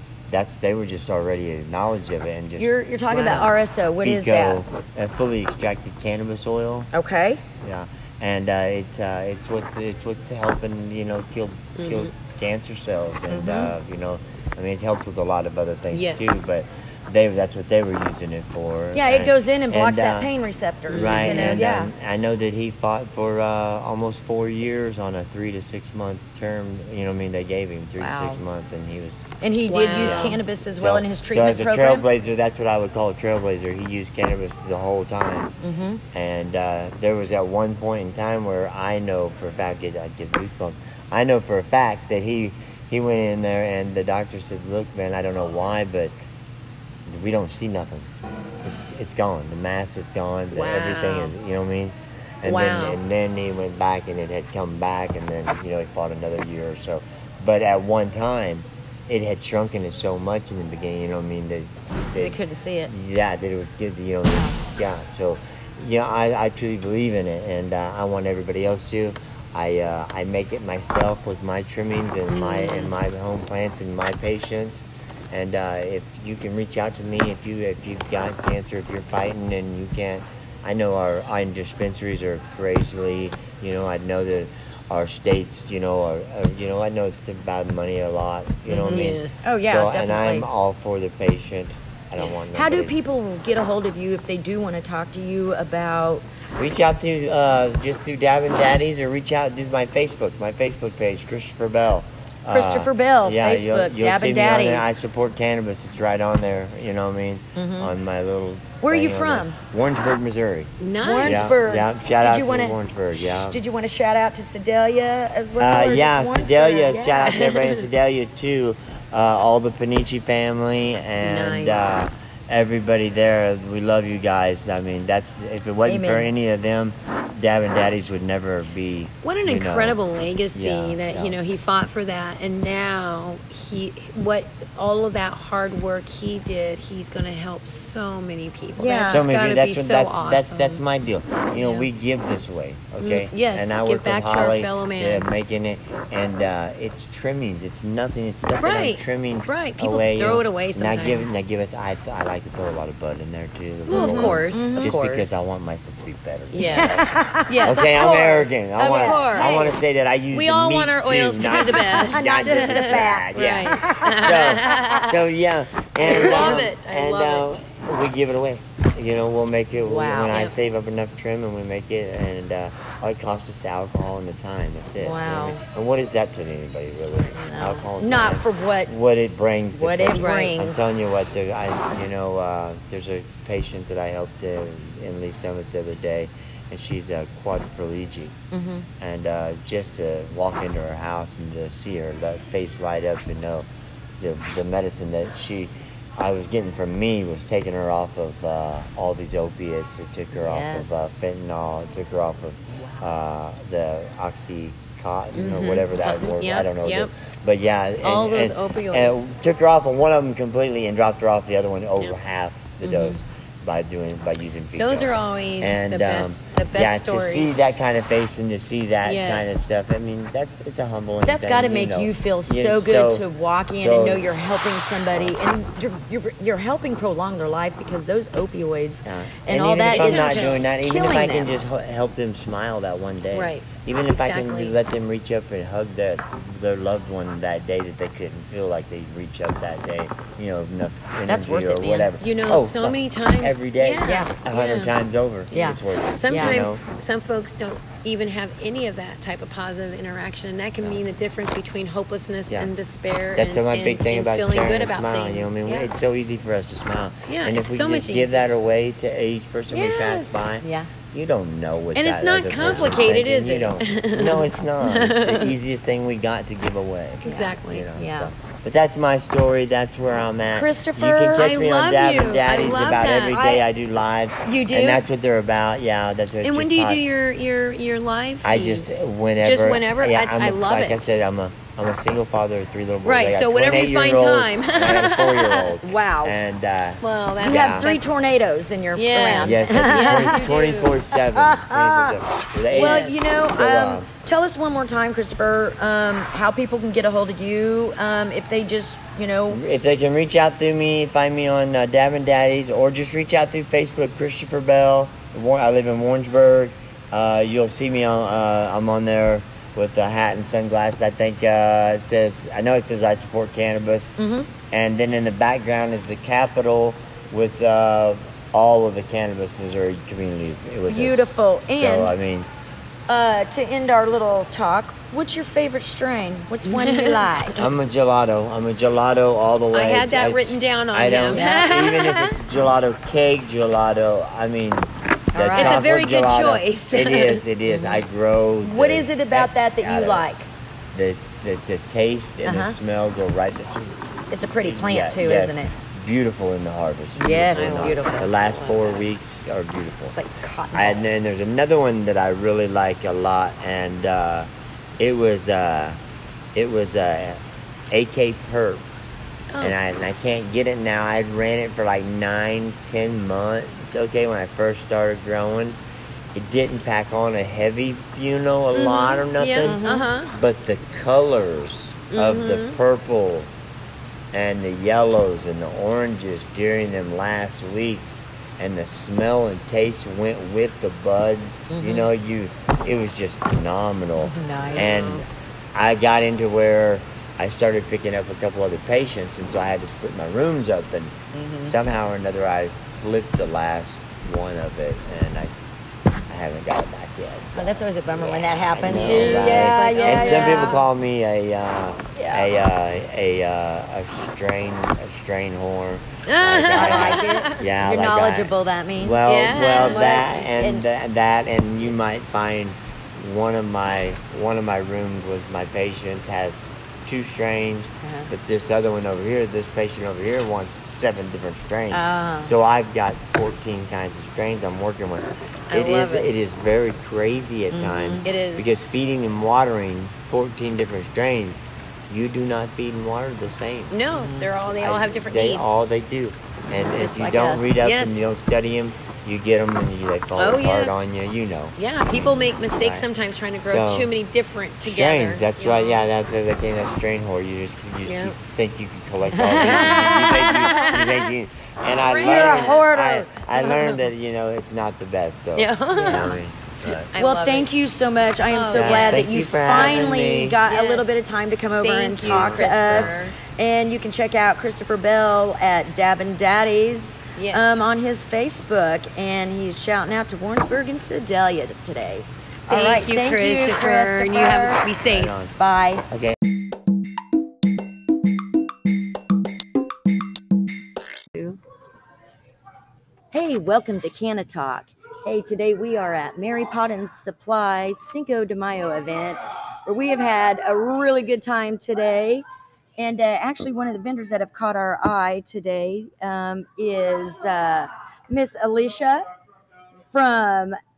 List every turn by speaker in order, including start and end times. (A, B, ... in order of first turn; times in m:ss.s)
0:00.3-0:03.4 A
0:02.6-0:04.6 B
0:03.1-0:03.5 C
0:04.0-0:06.9 A
0:06.9-0:07.4 B
0:07.6-0:20.3 A
0:11.8-0:12.1 C
0:13.3-0:13.7 B
0:15.9-0:16.4 C
0:18.9-0:21.9 B
0:20.9-0:21.6 C
0:20.9-0:29.3 A
0:28.0-0:28.4 B
0:29.4-0:32.1 B
0:29.7-0:30.4 C
0:29.9-0:35.5 A
0:35.6-0:36.0 B
0:36.1-0:46.1 A
0:47.0-0:48.1 A
0:48.6-1:33.0 A
0:50.5-0:51.3 C
0:52.4-0:53.0 C
1:02.1-1:02.9 B
1:04.3-1:04.6 B
1:12.3-1:12.9 C
1:28.7-1:30.5 B
1:28.7-1:29.5 C
1:32.5-1:36.2 B
1:36.6-1:53.6 A
1:42.5-1:45.0 B
1:47.6-1:47.9 B
1:48.8-1:49.6 B
1:50.8-1:51.6 C
1:51.0-1:57.5 B
1:55.6-2:10.0 A
1:57.3-1:57.8 C
2:01.2-2:02.1 C
2:05.8-2:06.3 B
2:09.2-2:20.8 C
2:10.5-2:11.4 A
2:18.8-2:19.3 B
2:19.1-3:08.4 A
2:21.5-2:21.9 C
2:23.0-2:25.3 C
2:28.6-2:31.3 C
2:33.9-2:35.5 C
2:33.9-2:35.0 B
2:36.5-2:39.8 C
2:36.6-2:37.8 B
2:38.8-2:39.8 B
2:40.3-2:45.2 C
2:41.6-2:44.9 B
2:46.0-2:47.6 C
2:46.0-2:46.6 B
2:49.8-2:50.4 B
2:50.3-2:50.5 C
2:55.0-2:55.6 B
2:57.3-2:58.9 B
2:59.7-3:00.9 B
3:00.2-3:00.5 C
3:08.5-3:08.9 B
3:09.0-3:13.7 A
3:14.2-3:43.2 A
3:20.4-3:21.1 B
3:25.3-3:27.1 C
3:28.0-3:29.4 C
3:32.8-3:33.2 C
3:34.8-3:37.7 C
3:39.0-3:39.7 C
3:41.2-3:51.5 B
3:43.8-3:44.2 A
3:49.0-4:06.8 A
3:49.8-3:50.7 C
3:53.3-3:54.8 C
4:01.2-4:02.1 B
4:02.2-4:04.9 C
4:04.0-4:04.3 B
4:05.5-4:06.6 B
4:06.1-4:15.9 C
4:13.3-4:37.0 A
4:17.3-4:18.5 C
4:19.7-4:20.6 C
4:20.6-4:20.9 B
4:21.9-4:25.5 C
4:27.2-4:27.9 C
4:27.2-4:28.3 B
4:30.5-4:31.6 B
4:31.3-4:33.6 C
4:33.4-4:33.6 B
4:34.4-4:35.0 B
4:36.4-4:41.2 C
4:38.4-4:47.9 A
4:43.0-4:45.7 C
4:45.8-4:46.4 B
4:47.0-4:48.0 C
4:47.4-4:50.5 B
4:48.9-4:51.0 C
4:49.4-4:54.1 A
4:51.2-4:52.2 B
4:52.7-4:53.5 C
4:52.7-4:59.6 B
4:59.5-5:21.2 A
5:14.2-5:14.5 B
5:20.9-5:22.1 B
5:21.7-5:22.5 A
5:23.1-5:27.6 B
5:26.7-5:27.7 C
5:27.6-5:40.3 A
5:29.7-5:32.4 C
5:35.3-5:35.8 B
5:35.6-5:38.0 C
5:38.6-5:40.5 B
5:40.9-5:50.2 A
5:42.4-5:42.8 B
5:44.3-5:45.7 B
5:47.2-5:48.5 B
5:47.5-5:49.0 C
5:50.1-5:51.2 B
5:50.7-5:56.0 A
5:56.5-5:58.8 A
5:59.6-6:05.8 A
6:06.3-6:13.5 A
6:08.7-6:10.3 C
6:09.6-6:10.1 B
6:12.1-6:12.8 C
6:14.3-6:35.5 A
6:21.7-6:22.1 B
6:24.2-6:25.2 B
6:31.3-6:31.7 B
6:36.3-7:23.1 A
6:37.6-6:40.8 B
6:38.8-6:40.9 C
6:42.1-6:42.6 B
6:46.3-6:47.6 C
6:46.7-6:50.9 B
6:49.2-6:50.2 C
6:58.0-6:58.3 B
7:01.9-7:02.5 B
7:05.7-7:06.5 C
7:07.7-7:08.3 B
7:08.2-7:08.8 C
7:13.9-7:15.8 C
7:16.7-7:17.7 B
7:17.8-7:18.4 C
7:20.4-7:26.0 C
7:23.6-7:24.1 A
7:24.8-7:37.1 A
7:28.0-7:28.4 C
7:29.4-7:30.3 B
7:29.4-7:31.3 C
7:32.0-7:32.9 C
7:32.2-7:33.7 B
7:35.6-7:37.8 C
7:35.9-7:36.2 B
7:37.1-7:54.9 B
7:38.4-7:41.2 C
7:38.7-7:40.6 A
7:41.8-7:43.3 C
7:42.2-7:43.1 A
7:47.4-7:47.9 C
7:52.7-7:55.4 C
7:55.1-7:55.5 A
7:55.5-7:56.0 B
7:56.1-7:56.4 A
8:01.3-8:01.6 B
8:03.3-8:12.4 B
8:13.0-8:19.3 B
8:20.1-8:20.8 B